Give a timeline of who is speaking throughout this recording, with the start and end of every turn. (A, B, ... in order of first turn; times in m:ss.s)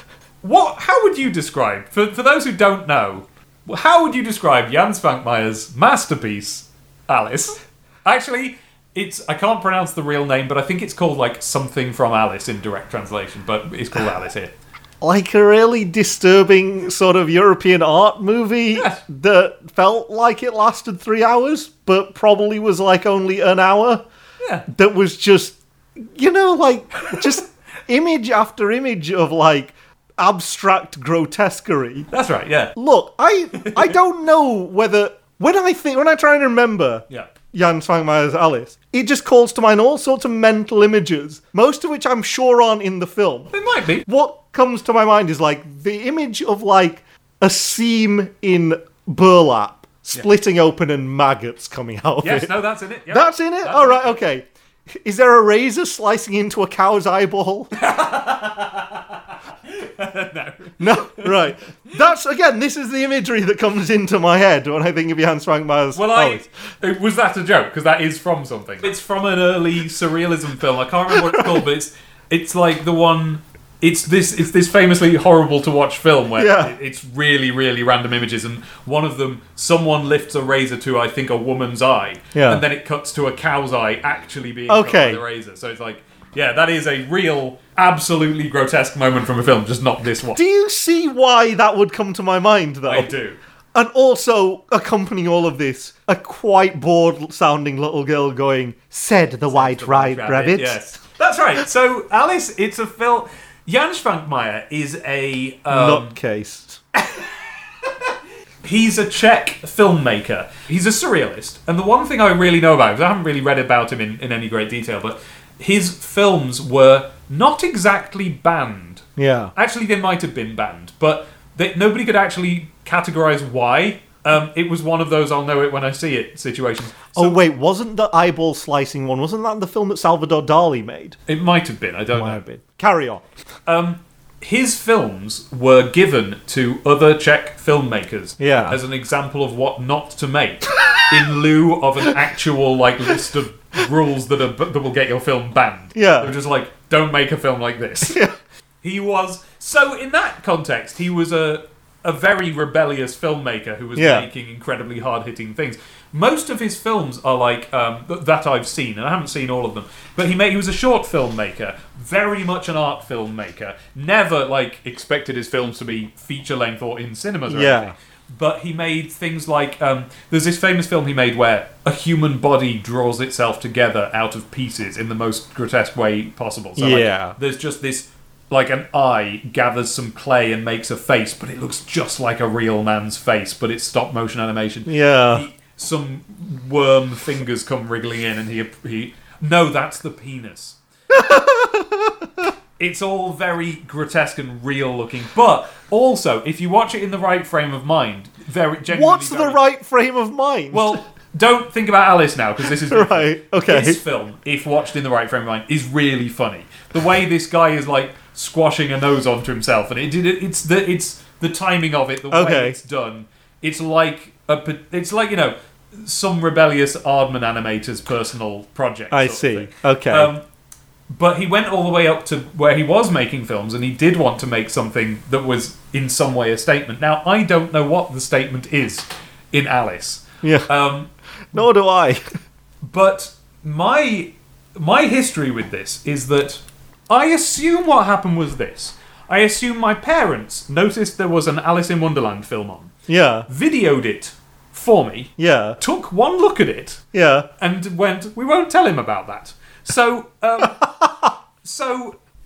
0:00.4-0:14.5 A
0:15.0-0:24.0 B
0:18.7-0:19.0 A
0:24.7-0:32.1 B
0:32.1-0:32.8 A
0:32.8-0:43.5 B
0:33.6-0:34.0 A
0:43.5-0:44.1 A
0:44.0-0:52.6 B
0:52.2-0:54.2 A
0:53.1-0:57.7 B
0:57.8-0:59.2 A
0:59.7-1:01.3 A
1:00.8-1:06.5 B
1:05.9-1:30.4 A
1:11.2-1:11.6 B
1:16.4-1:16.7 B
1:22.3-1:22.6 B
1:24.7-1:25.2 B
1:30.4-1:33.1 B
1:32.9-1:33.4 A
1:33.7-1:40.8 B
1:39.5-1:46.2 A
1:45.7-1:46.8 B
1:48.6-2:07.4 A
1:59.2-1:59.5 B
2:07.2-2:11.2 B
2:11.3-2:12.4 A
2:12.1-2:13.2 B
2:13.7-2:28.2 A
2:18.4-2:18.8 B
2:26.0-2:26.3 B
2:28.1-2:28.3 B
2:28.8-3:10.8 A
2:34.0-2:34.3 B
2:47.5-2:48.0 B
2:56.8-2:57.4 B
3:04.9-3:05.5 B
3:11.1-3:12.5 B
3:12.8-3:19.6 A
3:18.9-3:21.0 B
3:20.7-3:40.4 A
3:22.9-3:24.0 B
3:32.3-3:32.8 B
3:39.1-3:40.3 B
3:41.1-3:51.1 A
3:50.4-3:50.7 B
3:51.5-3:52.2 B
3:52.8-4:02.9 A
4:03.1-4:03.5 B
4:03.5-4:07.0 A
4:05.4-4:05.8 B
4:07.1-4:07.5 B
4:07.6-4:10.9 A
4:11.6-4:12.2 A